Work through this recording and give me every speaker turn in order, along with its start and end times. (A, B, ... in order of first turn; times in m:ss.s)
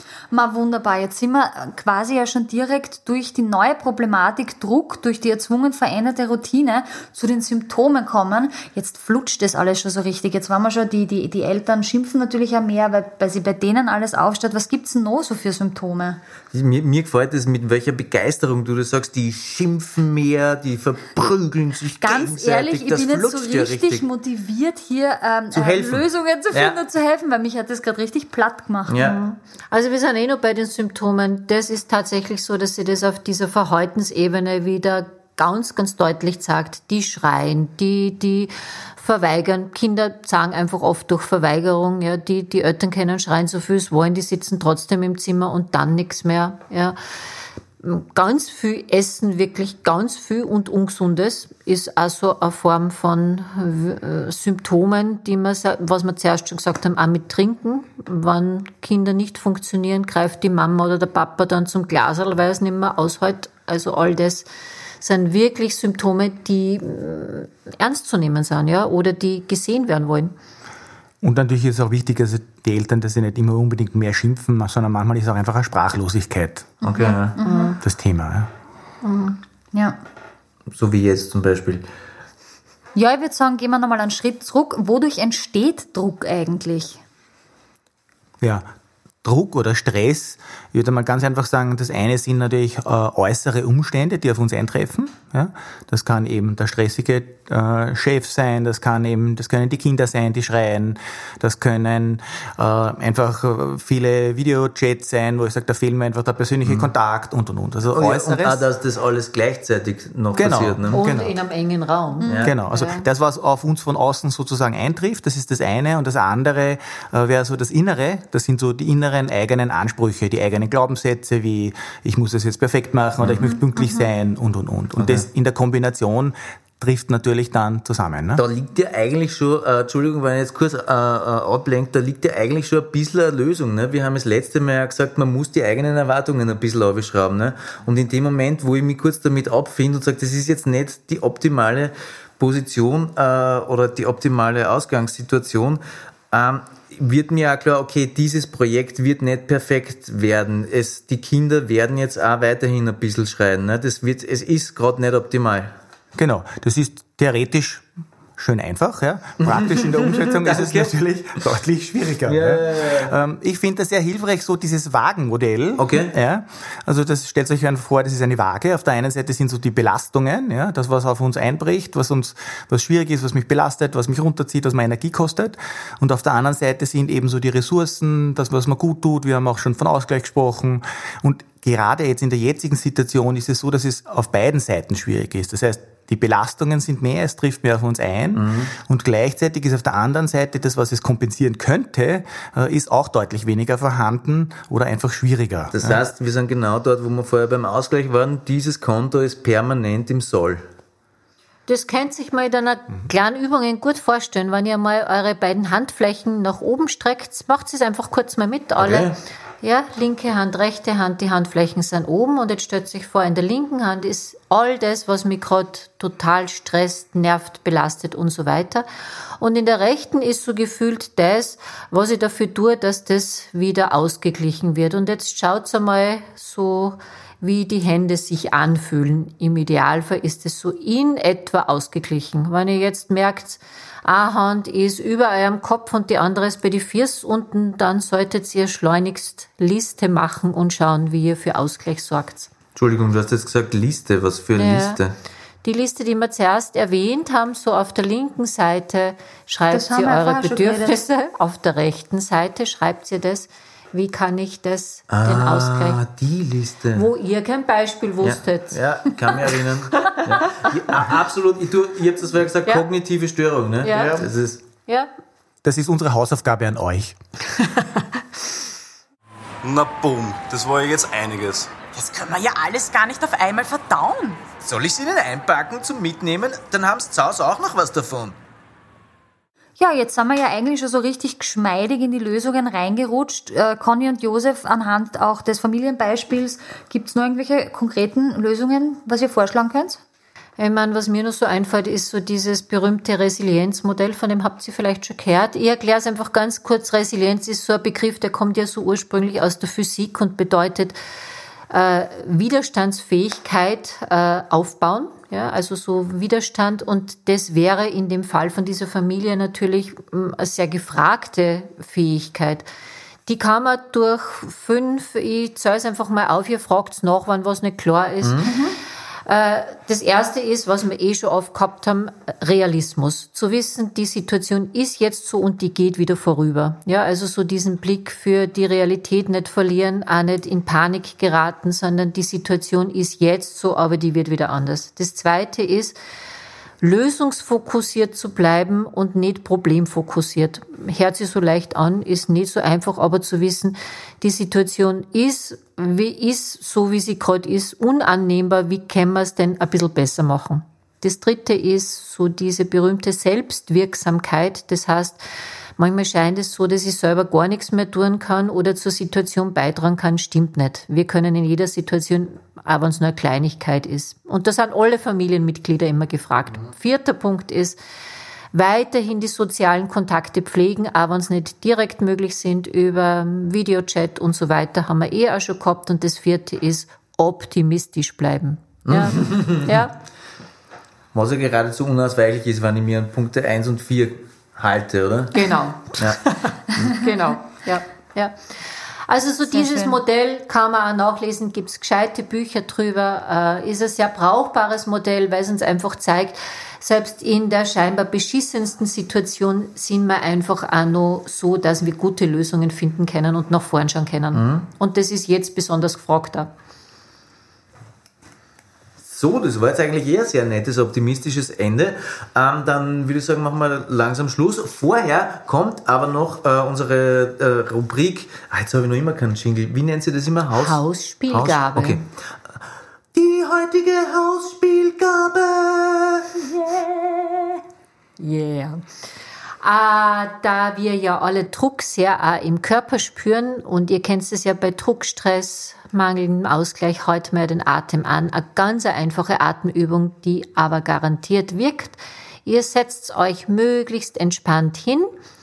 0:00.3-0:16.2 A
0:16.5-0:24.0 B
0:22.0-0:29.1 A
0:25.5-0:26.8 B
0:28.9-0:29.2 B
0:29.0-0:47.0 C
0:47.8-1:04.5 C
1:05.0-1:10.3 C
1:11.2-1:16.8 D
1:16.8-1:17.8 A
1:16.8-1:17.4 B
1:17.4-1:17.8 C
1:17.8-1:18.5 D
1:19.0-1:19.4 C
1:20.7-1:21.8 B
1:22.9-1:27.0 A
1:28.4-1:28.7 D
1:29.2-1:48.6 D
1:46.6-1:46.9 B
1:47.9-1:51.0 B
1:50.3-1:51.4 D
1:50.9-1:53.0 C
1:52.2-1:52.5 A
1:52.2-1:52.5 B
1:52.4-2:08.4 D
2:03.2-2:03.4 B
2:03.4-2:04.1 A
2:05.0-2:05.2 B
2:08.4-2:35.7 B
2:36.1-3:16.0 D
2:39.4-2:40.9 B
2:42.3-2:43.2 B
2:45.8-2:46.1 B
3:08.3-3:08.7 B
3:15.7-3:20.6 B
3:21.7-3:29.1 C
3:28.8-3:29.2 B
3:29.6-3:38.8 C
3:39.4-4:02.5 C
4:02.7-4:05.1 B
4:04.6-4:05.0 C
4:05.6-4:16.0 C
4:09.7-4:11.0 A
4:15.1-4:17.1 B
4:16.9-4:18.8 C
4:18.2-4:24.6 B
4:23.8-4:24.2 C
4:25.6-4:27.2 D
4:29.6-4:31.7 E
4:31.9-4:34.4 F
4:34.6-4:38.3 B
4:39.8-4:50.0 A
4:50.6-5:01.0 C
5:01.7-5:12.6 C
5:13.3-5:18.5 C
5:18.2-5:18.5 B
5:18.4-5:18.7 A
5:19.2-5:36.0 C
5:36.8-5:55.2 C
5:55.8-6:07.8 C
6:08.5-6:19.9 C
6:18.9-6:19.8 B
6:21.1-6:26.2 B
6:25.3-6:28.3 C
6:29.1-6:46.5 C
6:29.5-6:30.0 A
6:44.3-6:44.7 B
6:49.0-7:02.1 B
7:00.6-7:02.0 C
7:03.1-7:06.4 B
7:08.2-7:08.8 C
7:09.6-7:25.1 C